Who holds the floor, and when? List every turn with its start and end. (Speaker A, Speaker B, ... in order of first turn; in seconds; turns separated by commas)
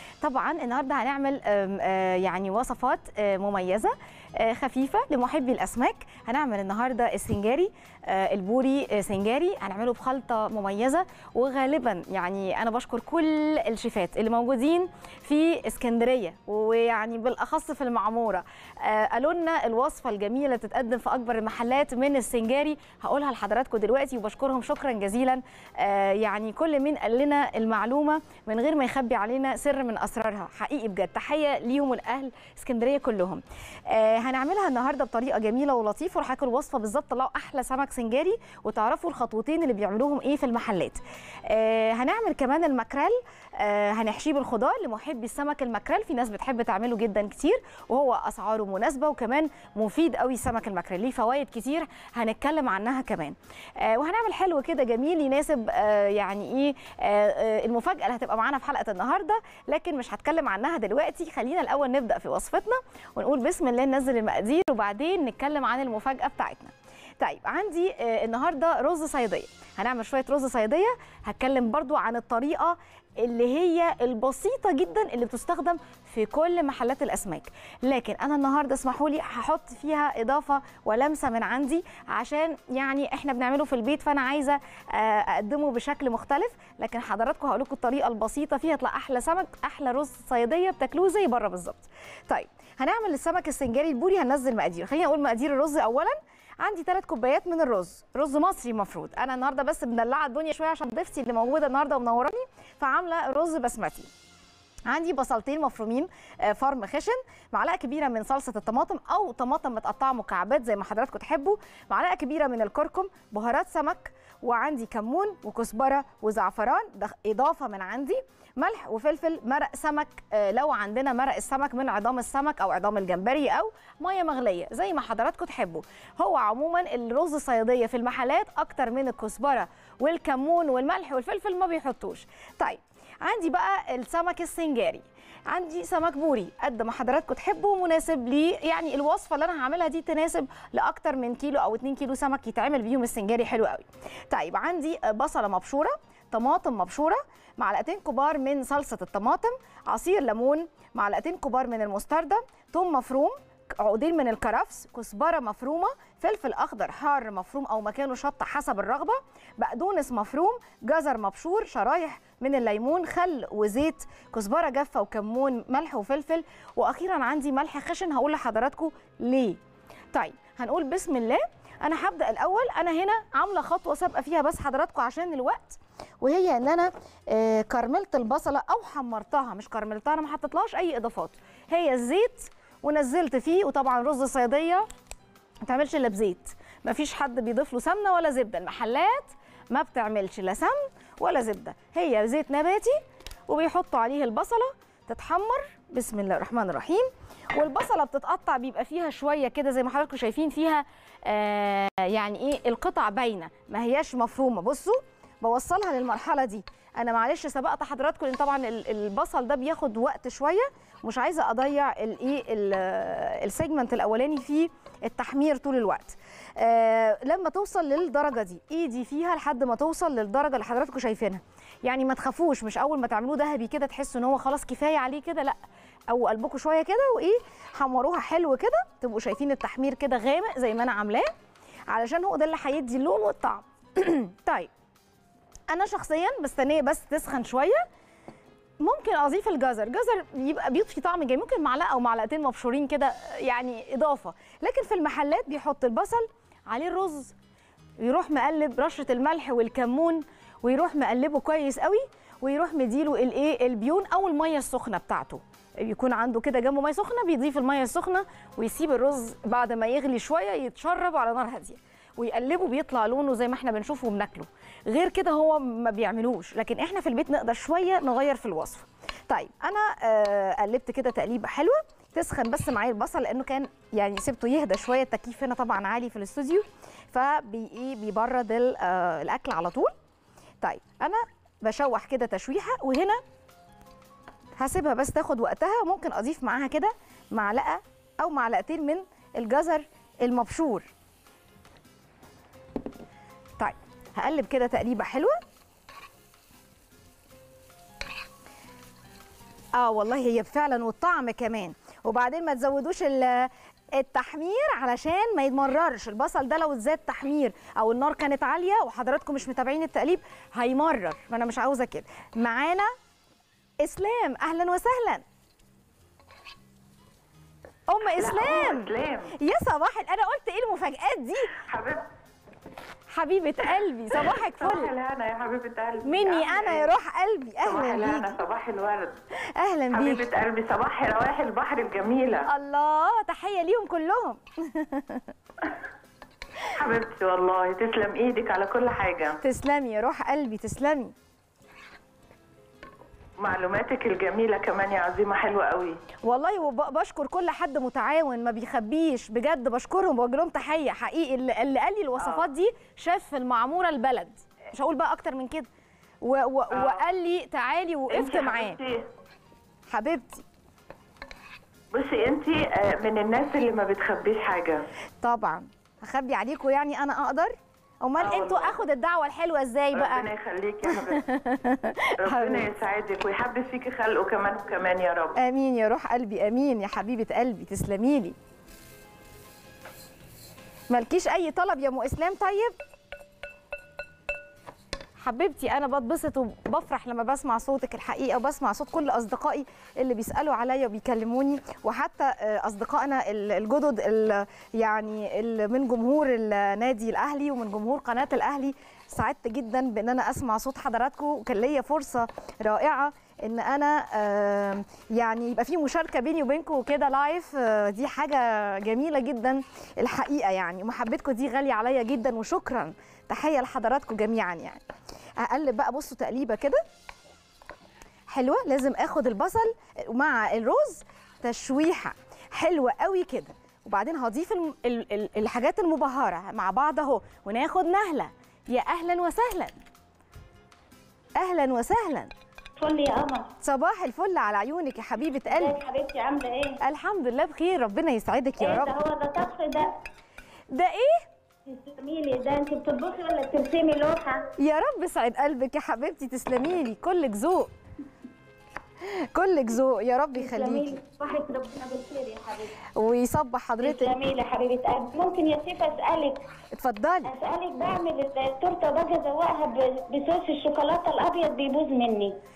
Speaker A: 0.2-104.1, Speaker A: 104.9-169.6, Speaker A: 170.1-184.8, Speaker A: 185.6-225.6, Speaker A: 226.1-231.3, Speaker A: 231.9-234.7, Speaker A: 235.7-237.8, Speaker A: 238.8-247.3, Speaker A: 248.0-279.9, Speaker A: 280.6-283.2, Speaker A: 284.6-290.9, Speaker A: 293.6-295.4, Speaker A: 299.7-312.9, Speaker A: 313.8-315.2, Speaker A: 317.9-321.6, Speaker B: 318.2-319.3, Speaker B: 321.6-322.1, Speaker A: 323.1-324.9, Speaker B: 324.2-326.9, Speaker A: 326.0-328.4, Speaker B: 327.6-329.2, Speaker A: 329.6-330.2, Speaker B: 329.9-332.5, Speaker A: 332.4-335.2, Speaker B: 336.7-339.4, Speaker A: 339.4-341.1, Speaker B: 343.4-346.0, Speaker A: 346.2-355.7, Speaker A: 356.2-358.8, Speaker B: 356.7-357.0, Speaker B: 358.1-359.1, Speaker A: 359.9-360.4, Speaker B: 361.9-364.9, Speaker A: 365.2-370.3, Speaker B: 368.2-368.8, Speaker B: 369.9-371.3, Speaker A: 370.8-372.7, Speaker B: 372.2-375.4, Speaker A: 375.4-378.3, Speaker A: 380.9-382.7, Speaker A: 385.2-414.8, Speaker A: 415.4-416.8, Speaker A: 418.3-429.7, Speaker A: 431.4-432.3, Speaker C: 432.8-433.5, Speaker A: 433.6-435.8, Speaker C: 435.5-436.8, Speaker A: 436.8-438.9, Speaker C: 438.6-439.9, Speaker A: 440.7-441.2, Speaker C: 441.6-444.4, Speaker A: 444.6-447.7, Speaker A: 449.0-451.0, Speaker C: 450.3-452.7, Speaker A: 452.9-454.2, Speaker C: 453.8-456.4, Speaker A: 456.7-457.3, Speaker C: 457.2-462.4